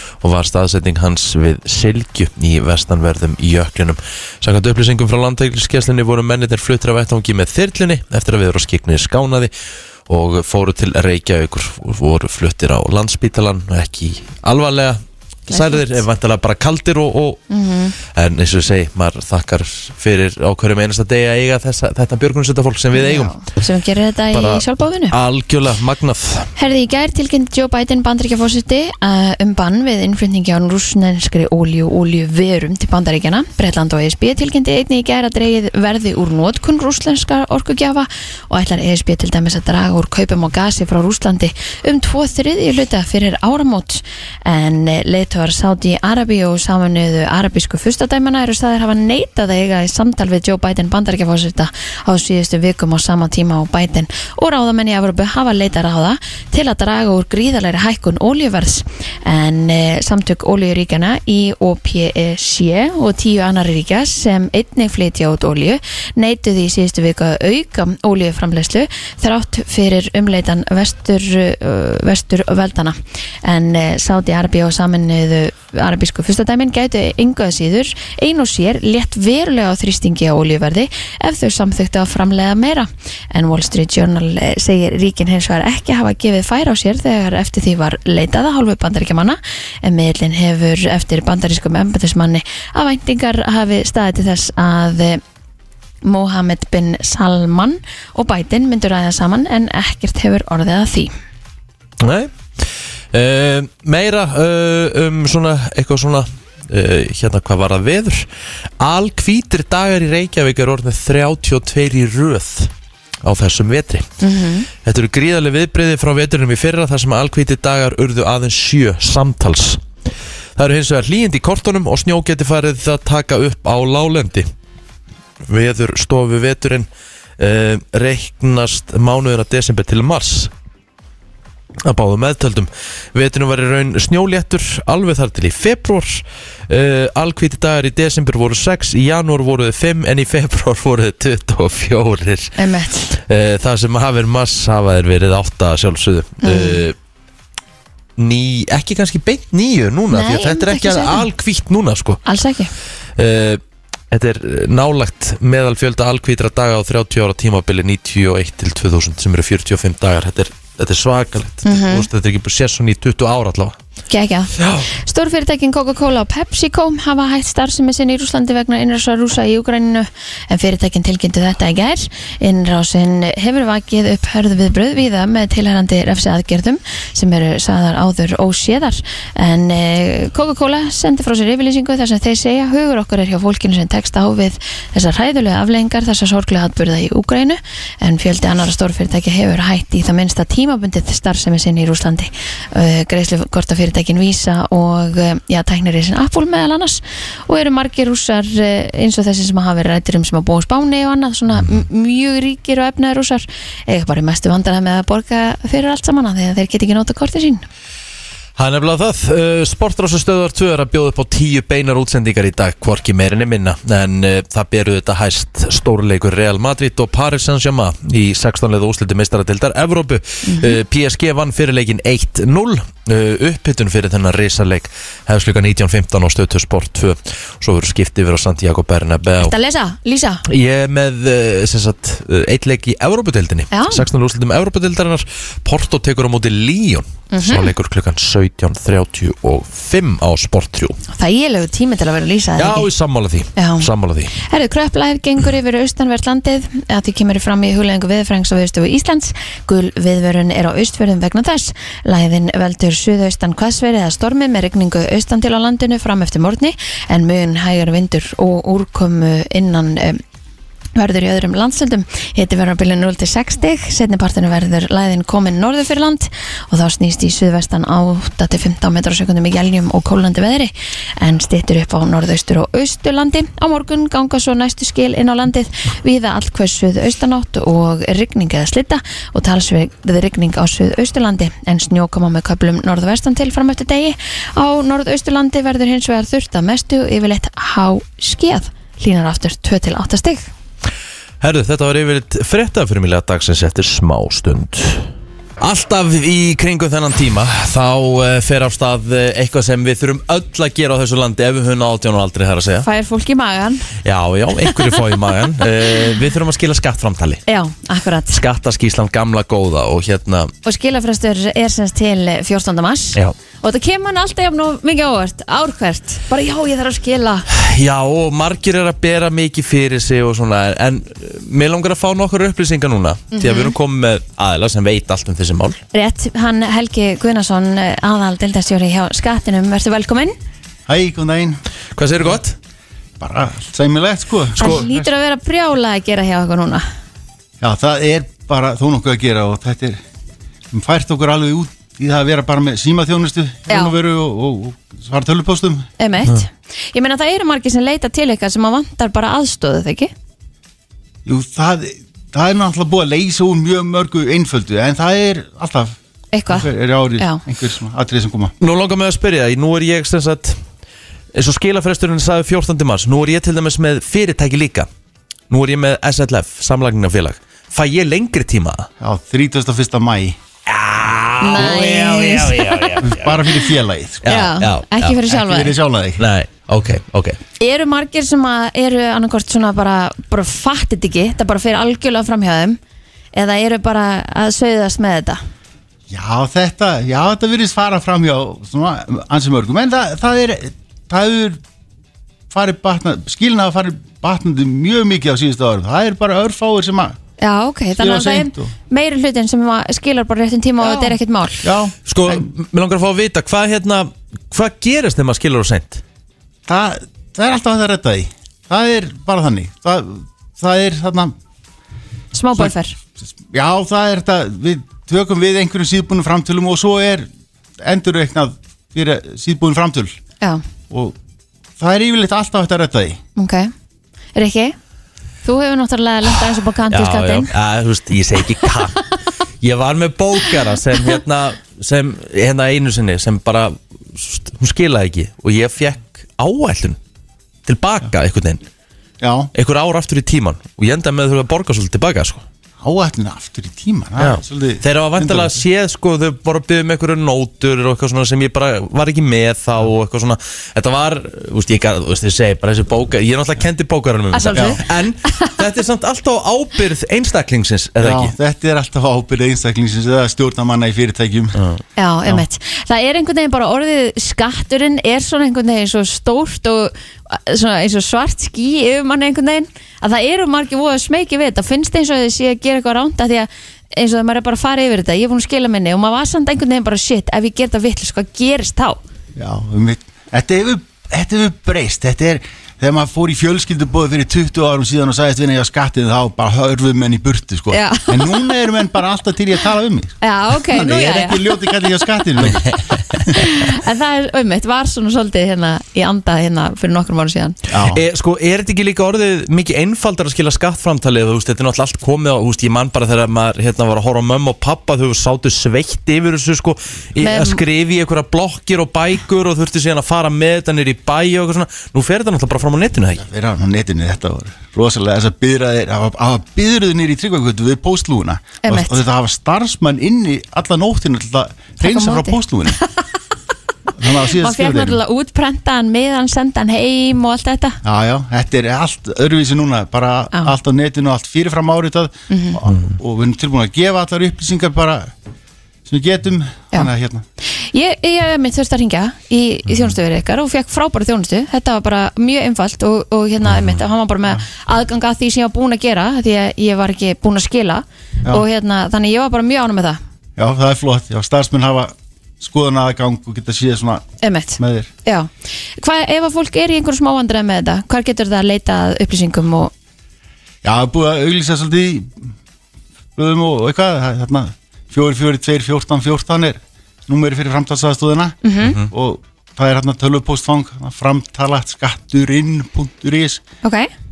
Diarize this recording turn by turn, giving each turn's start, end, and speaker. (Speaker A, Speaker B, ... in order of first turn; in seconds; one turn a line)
Speaker A: 0.2-9.5
Speaker A: 10.1-17.4
Speaker B: 15.5-16.0
Speaker B: 17.5-17.9
Speaker A: 18.1-23.3
Speaker B: 22.9-25.1
Speaker A: 24.3-26.5
Speaker B: 26.6-95.2
Speaker B: 96.0-101.1
Speaker A: 102.0-102.3
Speaker A: 103.1-108.2
Speaker A: 108.8-112.7
Speaker A: 113.2-114.1
Speaker B: 114.2-114.7
Speaker A: 114.8-119.8
Speaker A: 120.5-124.5
Speaker A: 125.5-126.9
Speaker A: 127.4-130.5
Speaker A: 131.8-142.6
Speaker B: 142.6-143.1
Speaker A: 143.1-146.9
Speaker B: 146.4-146.8
Speaker A: 148.2-152.2
Speaker B: 150.1-151.2
Speaker B: 152.2-152.7
Speaker A: 153.2-153.6
Speaker A: 154.1-163.8
Speaker B: 161.6-162.1
Speaker B: 164.1-207.6
Speaker A: 164.6-164.9
Speaker A: 208.6-229.5
Speaker B: 220.4-220.8
Speaker B: 229.4-230.4
Speaker A: 230.5-241.0
Speaker B: 233.7-234.0
Speaker B: 237.3-237.7
Speaker B: 241.1-242.9
Speaker A: 242.6-244.3
Speaker B: 243.6-243.9
Speaker B: 244.4-260.2
Speaker B: 260.9-290.5
Speaker A: 291.4-302.9
Speaker B: 302.8-303.9
Speaker A: 304.0-307.4
Speaker B: 307.5-308.4
Speaker A: 308.3-310.5
Speaker B: 310.6-317.4
Speaker A: 317.5-325.8
Speaker B: 323.3-323.7
Speaker B: 325.9-330.4
Speaker C: 330.9-331.6
Speaker A: 332.0-332.6
Speaker C: 333.2-335.1
Speaker B: 334.6-336.9
Speaker C: 337.6-340.0
Speaker C: 340.7-345.9
Speaker B: 346.0-350.1
Speaker C: 351.2-355.9
Speaker B: 356.3-357.4
Speaker C: 356.5-358.5
Speaker A: 358.6-360.6
Speaker A: 361.3-364.9
Speaker A: 365.5-368.9
Speaker C: 369.0-370.4
Speaker A: 370.7-373.4
Speaker B: 371.4-372.9
Speaker C: 373.0-374.4
Speaker A: 374.2-375.2
Speaker B: 374.2-375.8
Speaker C: 375.2-376.2
Speaker A: 376.2-377.4
Speaker B: 377.6-382.8
Speaker B: 383.3-385.4
Speaker C: 386.1-391.6
Speaker C: 392.5-397.1
Speaker B: 397.4-401.6
Speaker C: 398.0-398.7
Speaker C: 400.8-402.5
Speaker A: 402.1-406.0
Speaker C: 406.7-411.3
Speaker B: 412.3-412.9
Speaker C: 413.4-417.3
Speaker C: 417.8-420.1
Speaker C: 420.9-421.1
Speaker C: 421.8-423.2
Speaker B: 423.4-423.7
Speaker B: 424.4-424.8
Speaker B: 425.4-427.5
Speaker A: 426.9-429.0
Speaker A: 429.6-437.0
Speaker A: 437.6-438.6
Speaker C: 439.2-439.5
Speaker A: 439.5-442.4
Speaker C: 442.8-445.6
Speaker A: 444.2-458.3
Speaker B: 454.3-454.8
Speaker C: 454.5-454.8
Speaker C: 458.0-461.6
Speaker B: 462.0-479.0
Speaker C: 479.4-492.7
Speaker B: 487.7-488.5
Speaker B: 490.2-491.7
Speaker B: 493.3-497.6
Speaker C: 497.7-498.0
Speaker A: 497.9-513.2
Speaker B: 507.2-507.6
Speaker C: 513.2-522.8
Speaker B: 518.6-519.0
Speaker B: 521.8-522.9
Speaker C: 524.0-525.0
Speaker B: 524.4-527.8
Speaker C: 527.8-535.1
Speaker B: 532.3-532.6
Speaker C: 535.9-537.2
Speaker B: 537.5-550.0
Speaker C: 550.4-554.1
Speaker B: 554.2-559.7
Speaker C: 554.6-554.9
Speaker C: 560.6-562.3
Speaker C: 563.1-573.4
Speaker B: 568.4-568.8
Speaker A: 568.6-568.9
Speaker B: 573.6-573.9